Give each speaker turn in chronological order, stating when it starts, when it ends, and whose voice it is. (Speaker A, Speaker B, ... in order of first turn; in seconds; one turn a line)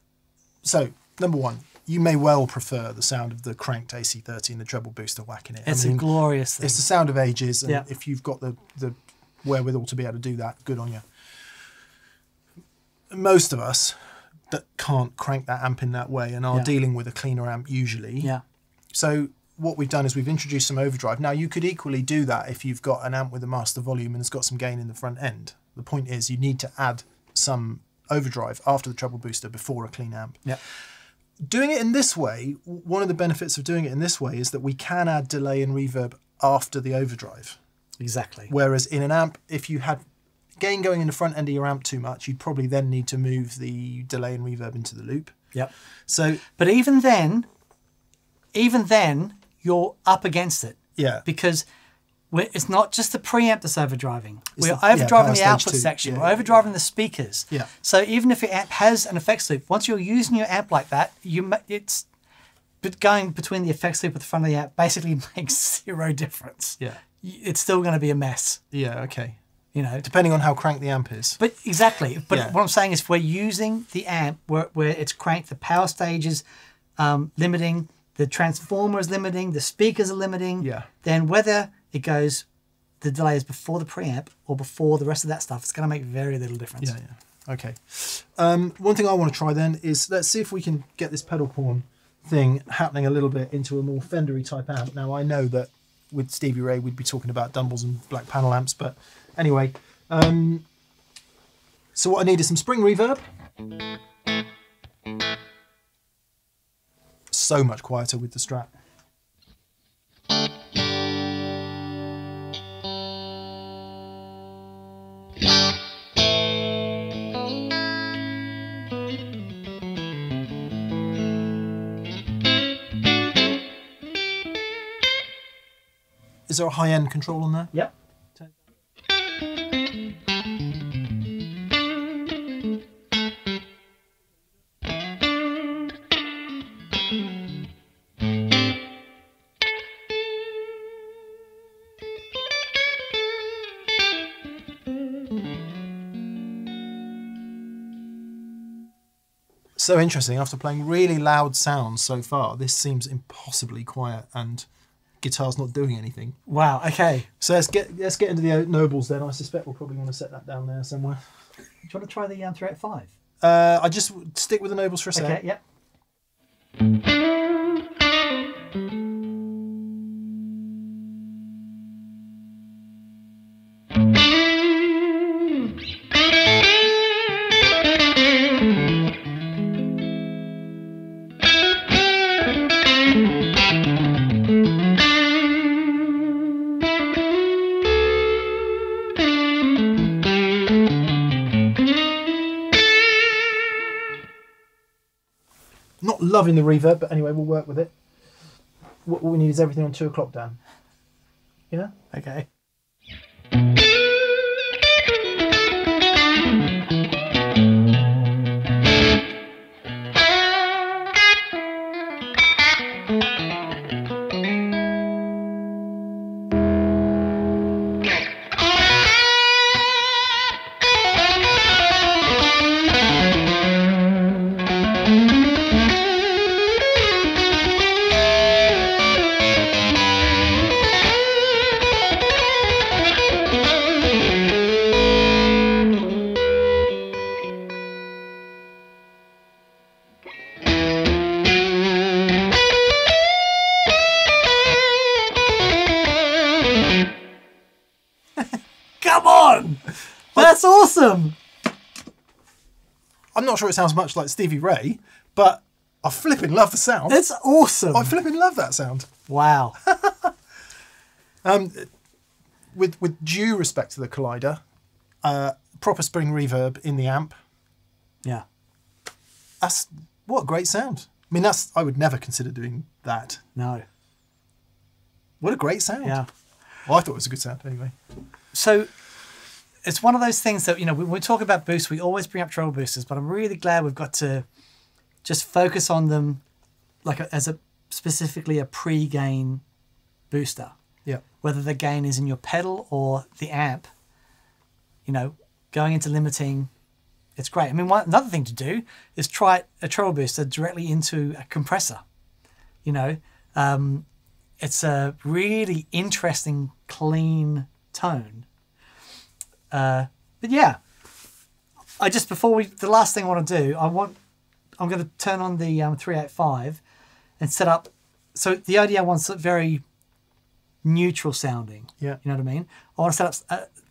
Speaker A: 0.6-11.1
Speaker B: 5.7-6.8
Speaker A: 13.1-18.4
Speaker A: 18.9-30.4
Speaker A: 31.4-37.6
Speaker B: 38.0-38.5
Speaker A: 38.5-40.0
Speaker A: 40.6-45.4
Speaker A: 46.1-46.4
Speaker B: 46.6-47.5
Speaker B: 48.5-51.7
Speaker A: 51.0-51.3
Speaker B: 52.3-62.1
Speaker A: 54.6-56.6
Speaker B: 62.8-68.6
Speaker A: 68.7-69.4
Speaker B: 69.7-70.0
Speaker A: 70.0-71.4
Speaker B: 71.4-76.4
Speaker A: 72.3-72.6
Speaker B: 77.0-82.5
Speaker A: 80.6-80.9
Speaker B: 83.0-87.0
Speaker A: 86.8-100.7
Speaker A: 102.0-103.2
Speaker A: 107.3-108.7
Speaker A: 126.5-127.7
Speaker A: 149.8-154.7
Speaker A: 155.2-156.4
Speaker B: 156.5-157.3
Speaker A: 157.4-161.2
Speaker B: 161.8-163.1
Speaker A: 163.4-165.4
Speaker B: 165.2-165.6
Speaker A: 196.0-197.9
Speaker A: 199.1-200.6
Speaker B: 202.1-202.5
Speaker B: 249.0-251.4
Speaker A: 253.4-257.2
Speaker B: 257.1-258.1
Speaker A: 257.9-259.1
Speaker B: 259.3-259.8
Speaker A: 259.8-260.3
Speaker A: 261.4-261.9
Speaker A: 262.7-264.6
Speaker A: 265.2-267.4
Speaker A: 269.6-273.4
Speaker B: 273.6-273.9
Speaker A: 275.4-276.2
Speaker B: 276.0-276.3
Speaker A: 276.9-277.9
Speaker B: 278.5-278.9
Speaker B: 279.8-284.5
Speaker B: 285.2-286.4
Speaker B: 287.0-289.6
Speaker B: 290.3-290.8
Speaker B: 291.4-293.9
Speaker B: 295.1-296.7
Speaker B: 297.4-302.0
Speaker B: 302.8-304.1
Speaker B: 304.6-308.5
Speaker B: 309.7-310.8
Speaker B: 312.0-314.2
Speaker B: 314.8-316.8
Speaker B: 317.4-319.8
Speaker B: 320.8-323.7